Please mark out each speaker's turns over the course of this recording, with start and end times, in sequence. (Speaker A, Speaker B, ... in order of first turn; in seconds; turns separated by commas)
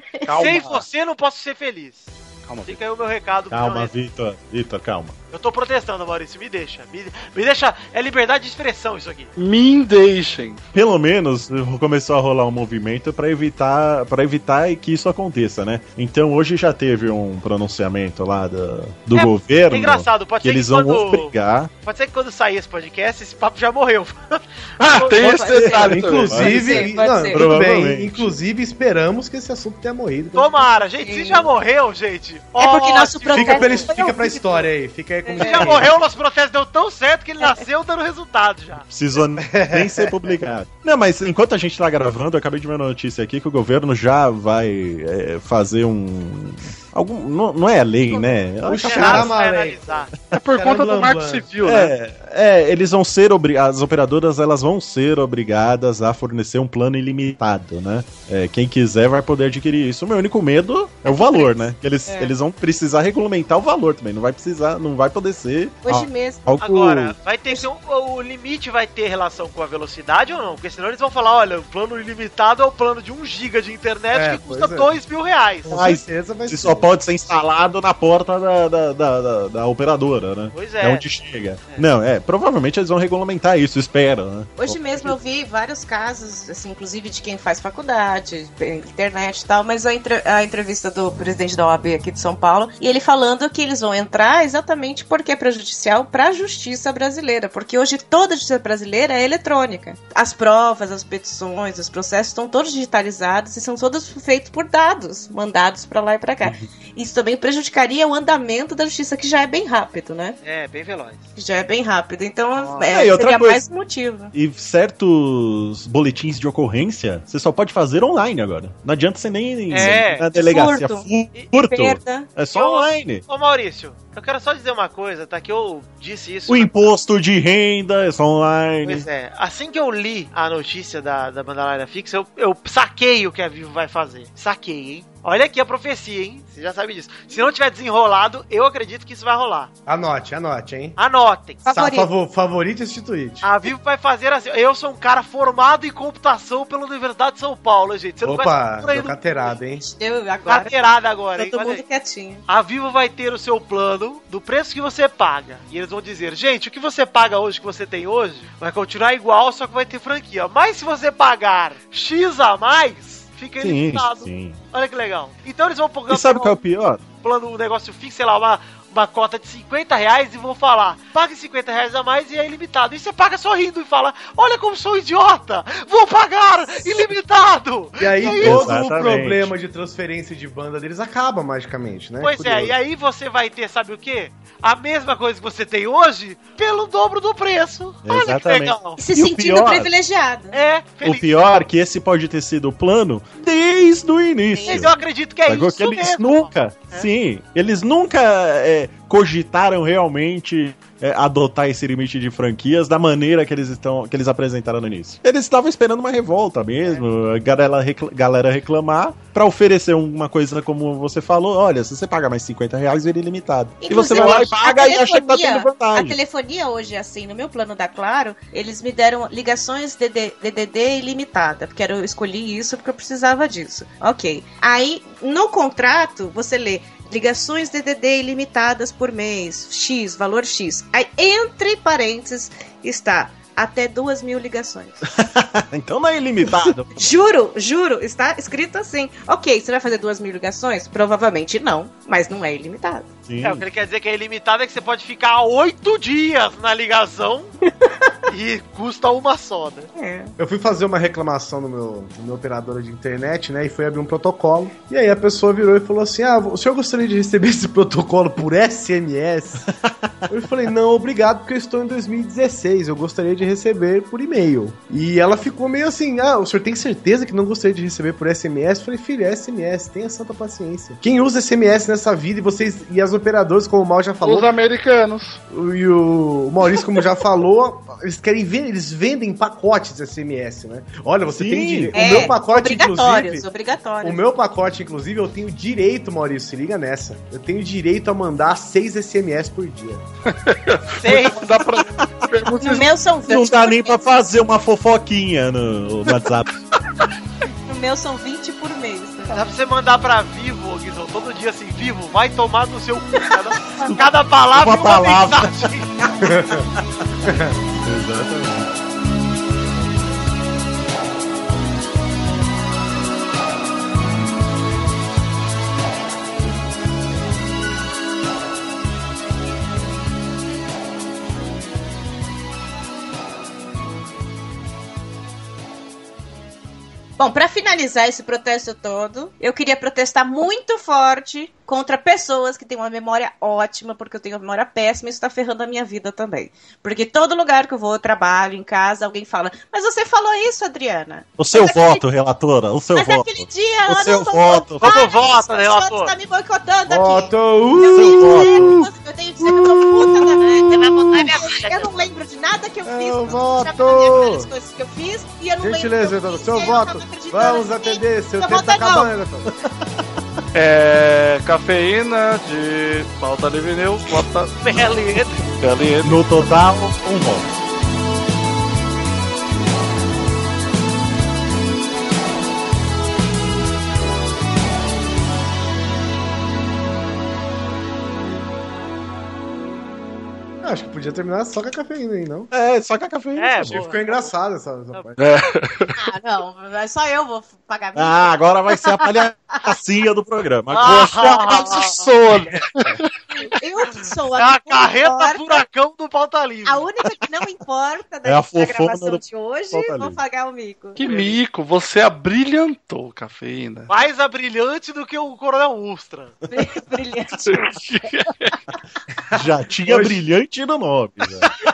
Speaker A: 0.3-0.8, Speaker B: 0.3-2.1, Speaker B: 2.6-3.9, Speaker C: 3.5-5.2, Speaker B: 5.3-9.3, Speaker A: 9.4-10.6, Speaker C: 10.7-21.7, Speaker B: 19.1-24.4, Speaker A: 24.8-26.8, Speaker C: 24.8-26.7, Speaker B: 25.0-25.6, Speaker D: 25.1-27.4, Speaker E: 25.6-30.5, Speaker C: 27.3-28.3, Speaker B: 30.4-33.9, Speaker D: 30.6-31.5, Speaker D: 32.6-34.6, Speaker E: 33.3-35.9, Speaker D: 35.3-35.8, Speaker B: 35.4-38.9, Speaker C: 38.9-49.3, Speaker E: 39.4-40.1, Speaker E: 48.6-51.5, Speaker B: 48.8-50.1, Speaker A: 50.3-51.9, Speaker C: 51.6-67.2, Speaker D: 61.1-62.3, Speaker D: 65.8-66.5, Speaker B: 66.6-75.7, Speaker E: 74.1-74.9, Speaker E: 75.7-76.9, Speaker C: 75.7-85.1, Speaker B: 80.5-81.0, Speaker D: 84.6-110.4, Speaker B: 110.4-111.3, Speaker D: 111.4-114.3, Speaker B: 112.6-112.9, Speaker C: 112.9-113.6, Speaker C: 114.3-123.2, Speaker D: 119.7-122.3, Speaker B: 119.7-120.2, Speaker B: 122.5-126.9, Speaker C: 126.5-129.1, Speaker B: 128.8-139.7, Speaker E: 139.9-141.0, Speaker B: 141.0-141.8, Speaker D: 141.7-142.1, Speaker E: 141.7-143.5, Speaker B: 143.4-149.5, Speaker E: 148.2-149.8, Speaker D: 149.7-150.7, Speaker B: 150.4-151.8, Speaker D: 151.5-152.4, Speaker B: 152.5-166.6, Speaker C: 163.6-164.6, Speaker C: 166.1-167.0, Speaker B: 167.2-178.8, Speaker E: 178.0-182.8, Speaker C: 178.4-179.5, Speaker B: 182.2-189.0, Speaker C: 188.1-189.9, Speaker D: 189.0-190.6, Speaker B: 190.5-191.3, Speaker C: 191.0-194.9, Speaker D: 194.6-195.0, Speaker B: 194.7-197.1, Speaker C: 195.5-216.2, Speaker D: 213.8-235.0, Speaker B: 214.1-214.5, Speaker C: 235.2-236.9, Speaker D: 236.5-243.1, Speaker C: 243.3-243.7, Speaker B: 243.4-247.5, Speaker B: 248.3-249.9, Speaker D: 250.0-250.3, Speaker E: 250.4-259.7, Speaker E: 260.3-274.5, Speaker A: 274.2-275.4, Speaker E: 275.5-283.5, Speaker C: 281.4-282.2, Speaker D: 281.9-284.2, Speaker E: 284.0-290.0, Speaker A: 290.3-292.9, Speaker B: 291.0-291.4, Speaker D: 292.6-294.0, Speaker C: 293.3-296.6, Speaker D: 297.7-299.4, Speaker B: 299.3-306.1, Speaker C: 303.9-305.7, Speaker E: 306.2-306.6, Speaker E: 307.3-307.5, Speaker C: 307.9-308.7, Speaker D: 327.2-342.0, Speaker C: 341.4-345.0, Speaker D: 343.0-359.1, Speaker B: 344.8-346.1, Speaker E: 346.9-348.9, Speaker C: 347.9-348.8, Speaker E: 349.4-351.4, Speaker E: 352.9-354.5, Speaker E: 355.6-359.5, Speaker A: 360.5-364.6, Speaker B: 364.6-365.4, Speaker A: 365.6-366.4, Speaker C: 366.0-367.4, Speaker E: 380.6-382.5, Speaker C: 382.5-383.8, Speaker B: 383.4-384.3, Speaker E: 383.6-385.4, Speaker A: 385.2-385.9, Speaker D: 386.0-389.8, Speaker C: 387.9-392.5, Speaker B: 390.7-392.1, Speaker A: 392.1-393.1, Speaker D: 393.3-395.6, Speaker B: 394.4-396.9, Speaker D: 396.6-401.0, Speaker C: 398.2-400.2, Speaker A: 401.0-403.9, Speaker B: 401.0-401.4, Speaker B: 403.9-406.4, Speaker D: 406.5-407.8, Speaker A: 407.5-408.6, Speaker C: 409.3-411.5, Speaker E: 409.9-410.2